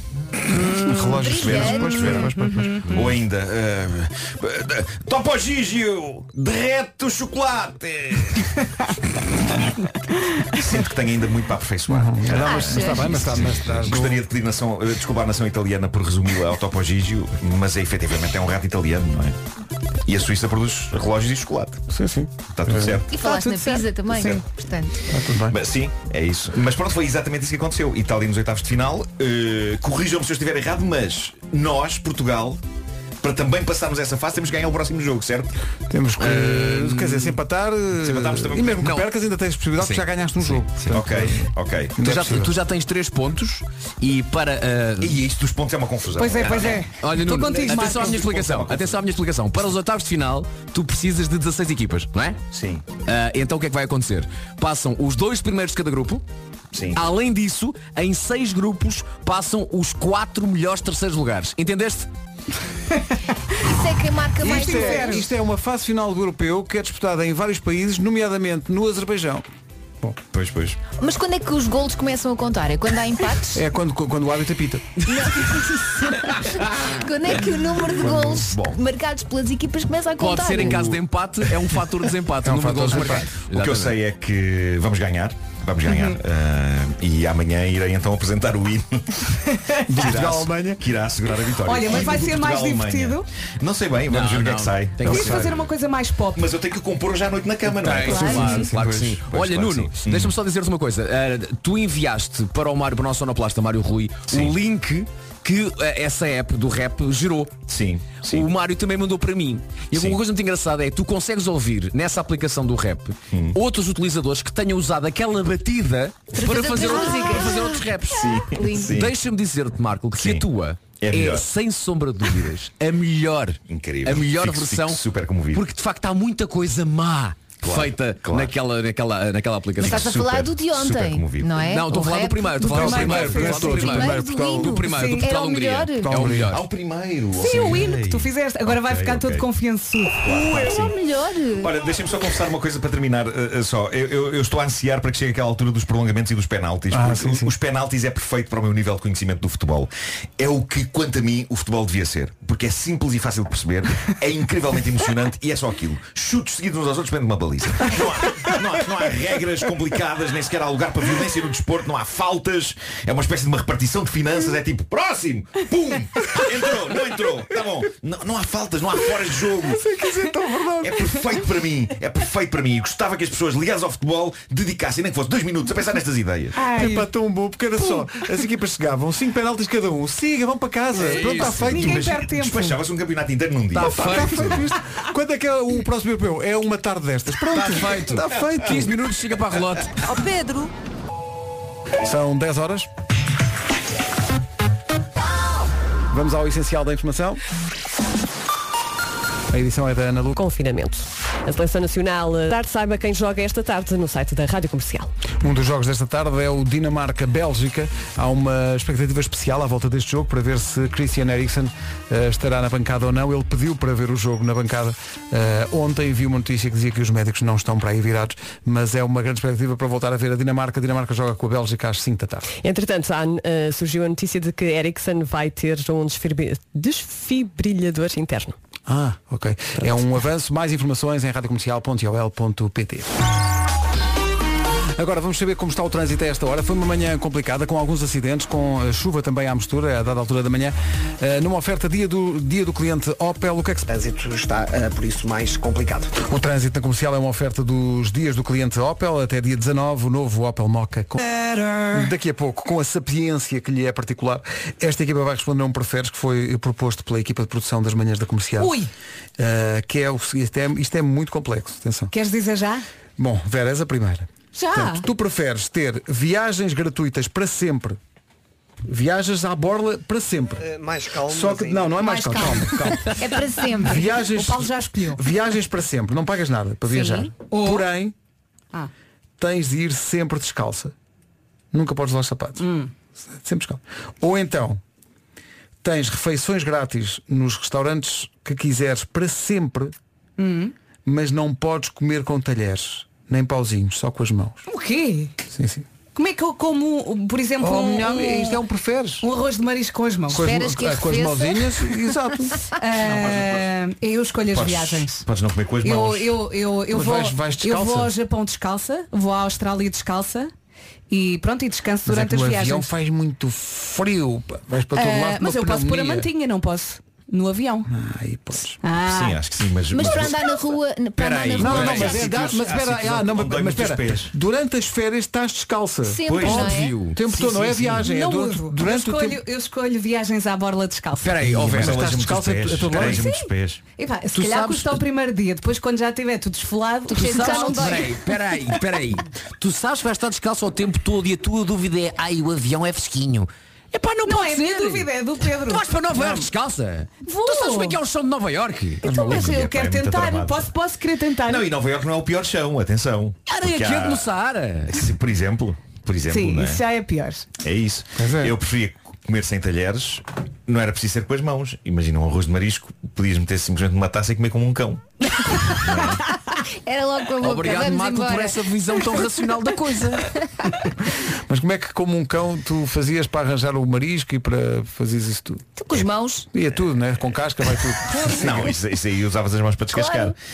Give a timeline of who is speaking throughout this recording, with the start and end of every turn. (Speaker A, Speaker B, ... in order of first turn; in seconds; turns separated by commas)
Speaker A: 0.5-1.0, Speaker B: 0.8-2.8, Speaker C: 1.1-2.2, Speaker D: 1.3-2.3, Speaker A: 2.4-3.0, Speaker D: 2.8-8.5, Speaker D: 10.5-19.4, Speaker B: 11.9-14.2, Speaker C: 12.3-13.3, Speaker D: 20.1-21.9, Speaker B: 21.9-23.0, Speaker D: 22.5-23.1, Speaker C: 23.1-24.9, Speaker A: 23.2-24.4, Speaker B: 25.1-25.6, Speaker D: 25.5-32.6, Speaker D: 33.2-35.5, Speaker B: 35.9-42.5, Speaker E: 36.2-37.4, Speaker D: 38.0-38.9, Speaker E: 38.8-39.1, Speaker E: 39.8-41.0, Speaker D: 40.9-42.0, Speaker E: 42.0-45.2, Speaker D: 45.0-49.0, Speaker A: 46.2-48.2, Speaker E: 46.9-52.4, Speaker D: 52.5-52.9, Speaker E: 53.0-56.2, Speaker D: 56.7-57.0, Speaker E: 56.9-62.1, Speaker C: 63.6-65.2, Speaker B: 64.4-69.5, Speaker A: 64.5-65.3, Speaker D: 70.3-70.8, Speaker C: 70.9-73.6, Speaker B: 73.5-75.1, Speaker C: 75.0-81.0, Speaker D: 78.0-78.8, Speaker E: 80.2-84.0, Speaker B: 82.4-83.3, Speaker D: 83.5-89.3, Speaker A: 85.9-86.2, Speaker B: 89.9-90.8, Speaker D: 89.9-95.7, Speaker A: 91.6-93.3, Speaker E: 94.1-95.7, Speaker A: 95.1-96.5, Speaker D: 96.3-100.4, Speaker E: 97.7-107.6, Speaker A: 98.1-98.7, Speaker B: 98.1-98.7, Speaker D: 104.3-104.5, Speaker D: 107.7-108.5, Speaker E: 108.2-125.0, Speaker D: 109.9-110.2, Speaker D: 113.3-113.6, Speaker C: 116.3-119.0, Speaker D: 118.1-119.1, Speaker D: 120.2-121.5, Speaker D: 123.7-125.6, Speaker E: 125.5-130.2, Speaker D: 127.6-128.6, Speaker C: 129.8-136.1, Speaker D: 129.8-131.7, Speaker E: 131.6-136.6, Speaker B: 132.6-134.8, Speaker A: 132.8-133.8, Speaker A: 134.9-135.2, Speaker B: 136.0-136.6, Speaker D: 136.5-139.5, Speaker A: 137.3-140.2, Speaker D: 140.2-140.9, Speaker C: 140.3-141.7, Speaker D: 141.6-169.8, Speaker B: 146.9-147.6, Speaker B: 169.6-171.2, Speaker D: 170.8-176.7, Speaker A: 176.6-177.1, Speaker B: 176.7-182.1, Speaker D: 180.9-184.7, Speaker E: 181.1-181.6, Speaker A: 181.7-182.8, Speaker B: 183.7-188.9, Speaker E: 183.9-184.7, Speaker E: 187.5-190.1, Speaker C: 190.2-190.7, Speaker B: 192.0-192.9, Speaker B: 196.1-197.4, Speaker B: 199.5-200.4, Speaker F: 200.4-205.1, Speaker B: 205.4-222.5, Speaker F: 222.6-228.6, Speaker B: 228.9-233.1, Speaker B: 234.9-243.9, Speaker G: 243.9-246.2, Speaker B: 246.2-251.2, Speaker A: 251.2-252.1, Speaker B: 251.9-258.8, Speaker A: 258.6-258.9, Speaker B: 259.4-262.1, Speaker A: 262.1-262.9, Speaker B: 263.2-268.0, Speaker A: 264.5-265.1, Speaker B: 268.9-270.7, Speaker G: 270.6-272.6, Speaker B: 271.3-273.3, Speaker A: 271.9-275.2, Speaker B: 273.8-278.1, Speaker A: 276.9-277.9, Speaker B: 279.4-280.9, Speaker B: 281.7-282.7, Speaker A: 282.6-282.9, Speaker B: 283.3-284.8, Speaker B: 285.8-289.9, Speaker A: 290.4-290.7, Speaker B: 291.1-294.6, Speaker A: 294.7-295.3, Speaker B: 295.5-295.9, Speaker A: 296.1-298.6, Speaker B: 297.6-299.3, Speaker A: 299.2-300.5, Speaker B: 300.3-302.6, Speaker C: 300.3-302.0, Speaker A: 302.8-305.3, Speaker D: 303.0-303.7, Speaker D: 304.4-306.4, Speaker A: 305.8-310.5, Speaker B: 306.9-308.1, Speaker A: 311.1-312.9, Speaker B: 312.1-316.3, Speaker A: 314.9-317.9, Speaker B: 317.9-318.8, Speaker A: 318.8-319.4, Speaker D: 319.0-320.7, Speaker C: 319.9-322.3, Speaker E: 321.2-322.6, Speaker B: 321.6-326.2, Speaker D: 321.6-324.3, Speaker C: 326.0-327.0, Speaker D: 326.3-326.8, Speaker E: 326.4-327.9, Speaker B: 327.1-329.4, Speaker A: 327.4-331.4, Speaker E: 331.2-332.1, Speaker B: 331.4-333.3, Speaker D: 331.4-333.8, Speaker A: 333.1-338.2, Speaker E: 334.3-335.0, Speaker C: 337.1-338.1, Speaker E: 337.1-349.4, Speaker A: 344.2-345.8, Speaker B: 346.2-346.5, Speaker A: 347.3-348.0, Speaker A: 349.0-351.7, Speaker D: 349.2-350.7, Speaker D: 351.4-354.3, Speaker E: 353.5-355.0, Speaker D: 354.9-356.8, Speaker A: 356.3-357.4, Speaker D: 357.6-365.0, Speaker B: 358.2-358.5, Speaker D: 365.7-366.2, Speaker C: 366.8-369.3, Speaker E: 367.4-370.3, Speaker B: 371.5-375.7, Speaker C: 375.8-376.5, Speaker B: 376.5-378.7, Speaker D: 378.3-380.4, Speaker C: 379.9-380.3